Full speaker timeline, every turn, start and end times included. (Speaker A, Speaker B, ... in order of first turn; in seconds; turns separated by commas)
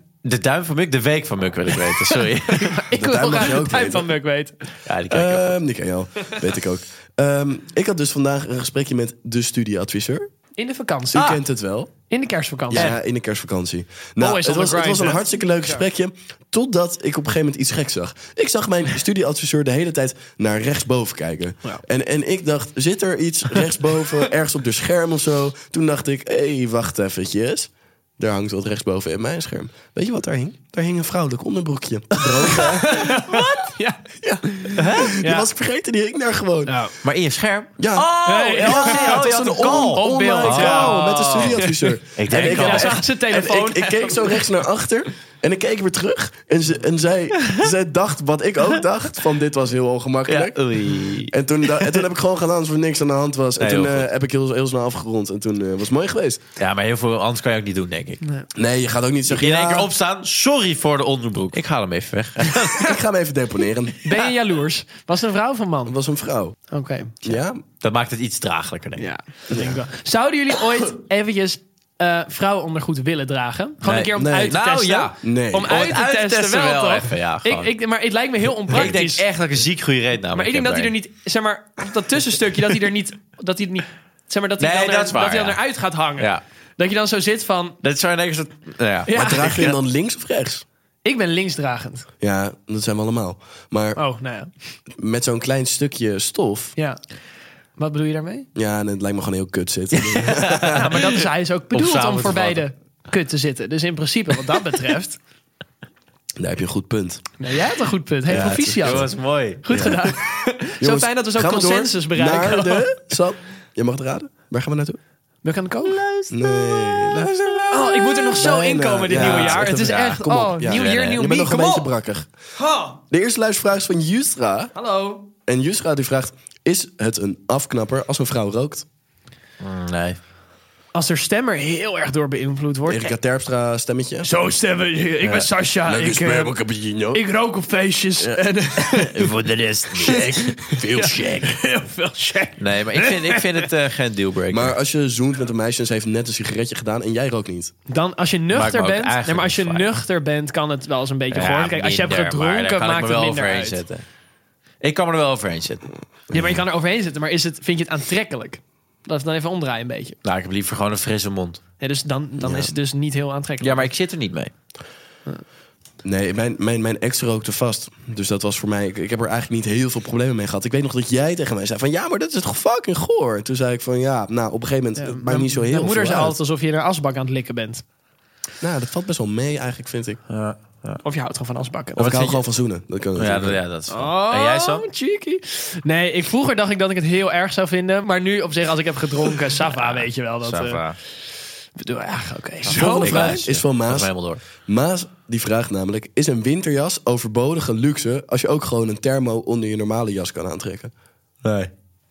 Speaker A: 0.2-2.8, Speaker B: 2.0-4.5, Speaker C: 2.9-4.1, Speaker A: 4.8-5.6, Speaker C: 5.1-10.3, Speaker B: 10.6-11.3, Speaker C: 11.1-11.9, Speaker A: 11.1-11.4, Speaker B: 12.1-12.9, Speaker C: 12.7-33.1, Speaker B: 14.2-15.8, Speaker B: 32.4-35.5, Speaker C: 34.2-36.7, Speaker A: 34.8-35.2, Speaker B: 36.6-36.9, Speaker A: 37.0-41.6, Speaker C: 37.8-56.4, Speaker B: 38.2-39.2, Speaker B: 39.8-44.4, Speaker A: 42.1-43.0, Speaker A: 50.3-52.0, Speaker A: 53.6-54.1, Speaker A: 56.6-58.2, Speaker C: 58.5-59.9, Speaker A: 59.3-62.9, Speaker C: 62.7-64.0, Speaker B: 64.0-66.0, Speaker C: 65.8-66.5, Speaker B: 66.7-67.2, Speaker C: 67.2-67.6, Speaker A: 67.8-69.0, Speaker B: 69.0-79.2, Speaker C: 69.5-69.8, Speaker A: 73.8-77.7, Speaker C: 74.2-74.5, Speaker C: 75.2-75.7, Speaker A: 78.7-80.9, Speaker B: 80.3-87.8, Speaker A: 84.6-85.6, Speaker A: 87.8-89.7, Speaker B: 89.1-89.7, Speaker C: 89.1-90.6, Speaker B: 91.0-92.1, Speaker C: 92.2-94.0, Speaker B: 94.0-94.5, Speaker C: 94.9-96.7, Speaker B: 97.8-98.5, Speaker C: 98.5-100.9, Speaker A: 99.9-102.6, Speaker B: 100.7-105.2, Speaker C: 106.4-107.2, Speaker B: 107.4-112.9, Speaker A: 108.3-110.0, Speaker C: 110.8-115.0, Speaker B: 115.4-116.0, Speaker A: 115.8-117.3, Speaker C: 116.3-122.3, Speaker B: 117.7-121.9, Speaker A: 119.1-121.4, Speaker B: 122.5-123.0, Speaker C: 123.1-124.7, Speaker B: 124.7-125.3, Speaker C: 125.5-128.8, Speaker A: 129.6-130.2, Speaker B: 130.9-133.1, Speaker C: 132.8-134.3, Speaker B: 134.2-139.3, Speaker C: 135.8-137.2, Speaker A: 138.2-140.8, Speaker B: 140.0-143.7, Speaker C: 140.7-141.5, Speaker A: 142.6-144.8, Speaker C: 144.5-147.7, Speaker B: 147.9-153.8, Speaker A: 148.5-149.9, Speaker A: 151.3-154.0, Speaker A: 154.8-155.9, Speaker C: 156.3-156.6, Speaker B: 156.3-160.2, Speaker A: 160.2-161.6, Speaker B: 161.8-163.9, Speaker C: 162.4-162.7, Speaker A: 163.6-164.5, Speaker C: 166.0-176.3, Speaker B: 175.0-177.8, Speaker C: 178.6-180.2, Speaker A: 180.3-181.0, Speaker B: 181.0-182.2, Speaker A: 182.0-182.4, Speaker C: 182.0-183.6, Speaker A: 183.2-184.8, Speaker B: 183.9-190.8, Speaker A: 189.6-191.0, Speaker B: 191.8-193.4, Speaker A: 192.7-194.4, Speaker C: 192.7-200.9, Speaker A: 201.4-201.7